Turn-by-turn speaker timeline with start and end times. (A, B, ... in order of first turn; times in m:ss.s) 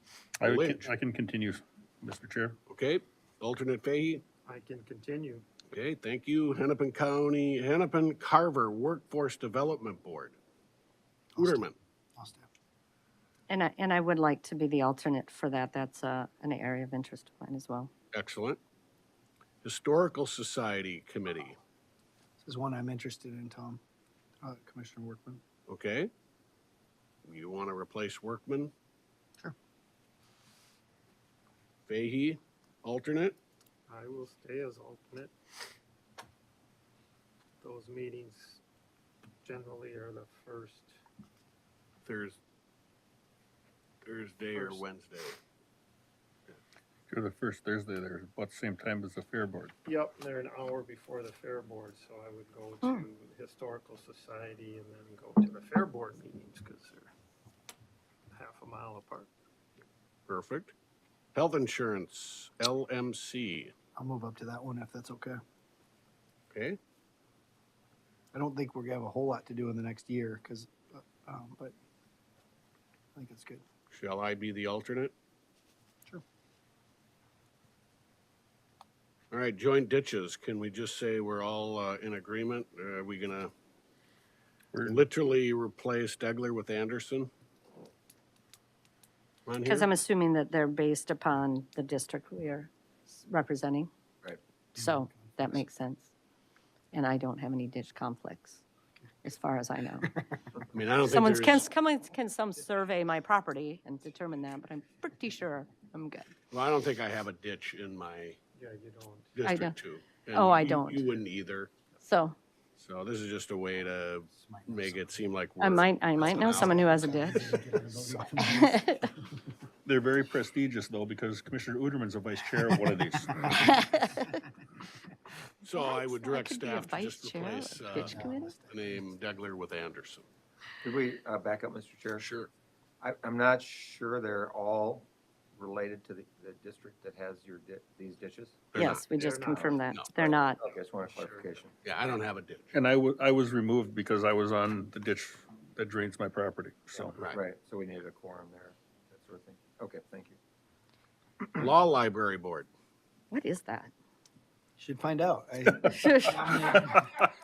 0:00.4-0:02.6 A
0:00.4-0:00.9 B
0:02.7-0:04.2 B
0:04.5-0:05.4 C
0:05.7-0:10.4 B
0:11.3-0:12.5 D
0:11.4-0:11.8 B
0:13.5-0:17.9 E
0:18.1-0:18.6 B
0:19.6-0:21.6 B
0:22.4-0:23.8 D
0:24.4-0:25.4 D
0:25.7-0:26.1 B
0:27.2-0:28.7 B
0:31.9-0:33.4 B
0:33.9-0:35.3 C
0:37.6-0:38.6 C
0:39.4-0:40.9 C
0:42.0-0:42.4 B
0:44.0-0:45.4 B
0:44.5-0:44.8 C
0:47.1-0:49.8 A
0:49.8-0:57.1 C
0:58.3-0:59.3 C
1:00.3-1:00.7 B
1:01.4-1:03.7 B
1:04.0-1:05.4 D
1:06.5-1:06.8 B
1:08.3-1:11.7 D
1:13.2-1:13.6 D
1:13.9-1:15.1 B
1:19.3-1:23.5 B
1:24.7-1:25.0 A
1:24.8-1:27.3 B
1:29.5-1:29.9 B
1:29.6-1:33.9 E
1:34.8-1:36.1 E
1:34.8-1:35.6 D
1:36.9-1:38.6 E
1:39.2-1:40.1 E
1:40.7-1:41.7 B
1:41.0-1:46.3 E
1:46.5-1:48.4 B
1:48.6-1:49.4 C
1:49.4-1:51.7 B
1:49.4-1:49.7 E
1:50.3-1:51.1 E
1:52.0-1:52.4 E
1:52.8-1:57.1 B
1:54.3-1:55.0 D
1:55.6-1:57.7 E
1:56.6-1:59.2 D
1:58.4-1:59.1 E
1:59.8-2:03.8 A
2:03.7-2:04.3 E
2:05.6-2:10.3 B
2:05.7-2:08.6 E
2:08.0-2:09.2 D
2:10.8-2:12.3 F
2:12.2-2:12.5 B
2:13.0-2:19.0 F
2:18.7-2:19.0 B
2:18.8-2:20.6 E
2:19.1-2:21.6 C
2:19.6-2:21.8 F
2:21.8-2:22.7 B
2:22.7-2:27.2 A
2:27.3-2:30.4 F
2:31.5-2:32.7 B
2:33.3-2:33.9 E
2:34.8-2:37.2 D
2:35.8-2:37.0 E